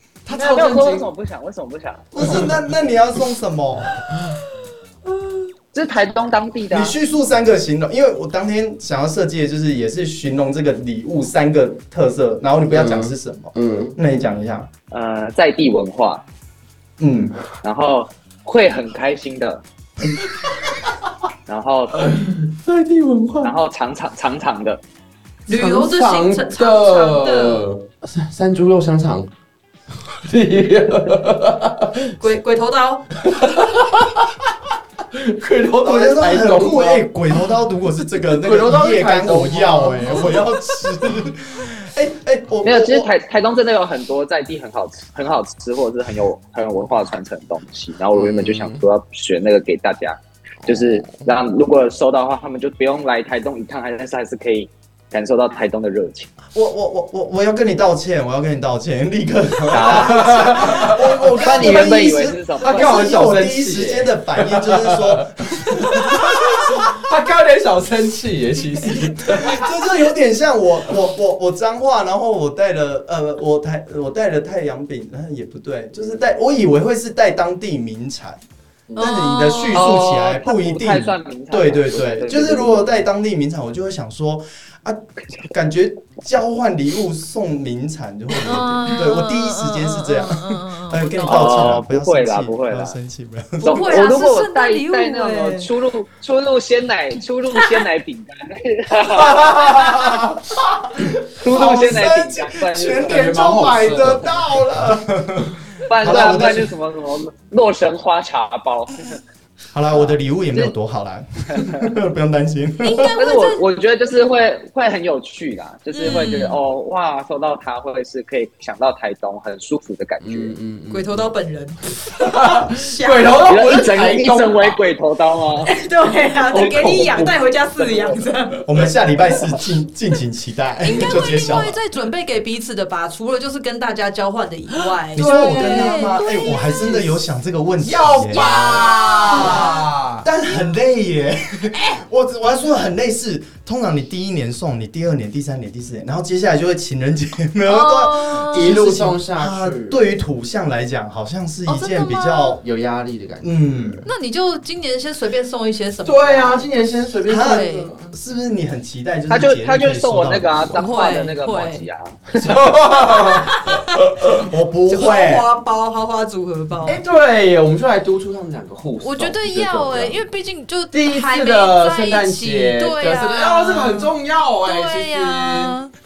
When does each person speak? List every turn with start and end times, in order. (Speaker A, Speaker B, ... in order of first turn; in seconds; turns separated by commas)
Speaker A: 0.3-1.1, Speaker B: 0.3-2.4, Speaker C: 2.1-4.1, Speaker A: 2.2-2.6, Speaker B: 5.7-7.0, Speaker C: 6.7-14.7, Speaker A: 12.7-14.0, Speaker B: 14.9-16.2, Speaker C: 17.0-17.4, Speaker B: 17.6-19.6, Speaker B: 21.5-22.1, Speaker A: 22.0-23.6, Speaker B: 23.4-24.8, Speaker D: 25.5-27.6, Speaker A: 25.5-29.3, Speaker A: 29.9-32.3, Speaker D: 32.2-33.1, Speaker A: 33.2-34.5, Speaker A: 35.1-37.4, Speaker C: 35.8-43.1, Speaker A: 38.1-41.3, Speaker B: 42.6-56.3, Speaker A: 48.1-48.8, Speaker A: 50.6-51.3, Speaker C: 56.5-66.9, Speaker B: 59.7-63.5, Speaker A: 59.8-62.0, Speaker A: 62.6-69.7, Speaker C: 69.3-78.4, Speaker C: 79.0-94.1, Speaker D: 79.0-80.0, Speaker B: 79.7-82.9, Speaker D: 88.4-91.6, Speaker B: 91.2-93.0, Speaker D: 93.6-95.7, Speaker B: 93.6-99.9, Speaker A: 99.0-100.5, Speaker C: 99.5-106.7, Speaker B: 101.4-103.4, Speaker A: 103.0-106.5, Speaker B: 105.9-109.2, Speaker C: 109.7-113.1, Speaker B: 111.5-111.8, Speaker D: 112.8-113.6, Speaker B: 113.0-120.6, Speaker D: 115.9-116.6, Speaker A: 120.2-121.3, Speaker D: 120.9-123.5, Speaker A: 122.1-124.8, Speaker B: 123.4-125.7, Speaker D: 125.7-128.6, Speaker B: 126.5-127.3, Speaker A: 126.6-127.3, Speaker C: 128.7-131.8, Speaker D: 130.8-137.2, Speaker A: 131.0-131.4, Speaker A: 135.2-136.2, Speaker C: 135.2-152.6, Speaker A: 137.8-140.3, Speaker D: 138.3-139.8, Speaker D: 147.7-148.8, Speaker A: 148.5-150.0, Speaker D: 151.7-152.6, Speaker A: 152.6-154.0, Speaker C: 153.4-154.1, Speaker D: 154.1-156.7, Speaker A: 156.0-158.2, Speaker C: 157.2-160.8, Speaker D: 157.3-157.9, Speaker B: 159.3-162.6, Speaker D: 160.7-161.9, Speaker A: 162.3-164.3, Speaker D: 162.9-164.4, Speaker C: 164.3-165.5, Speaker D: 164.9-167.0, Speaker A: 166.8-170.3, Speaker D: 169.0-175.9, Speaker A: 170.9-175.8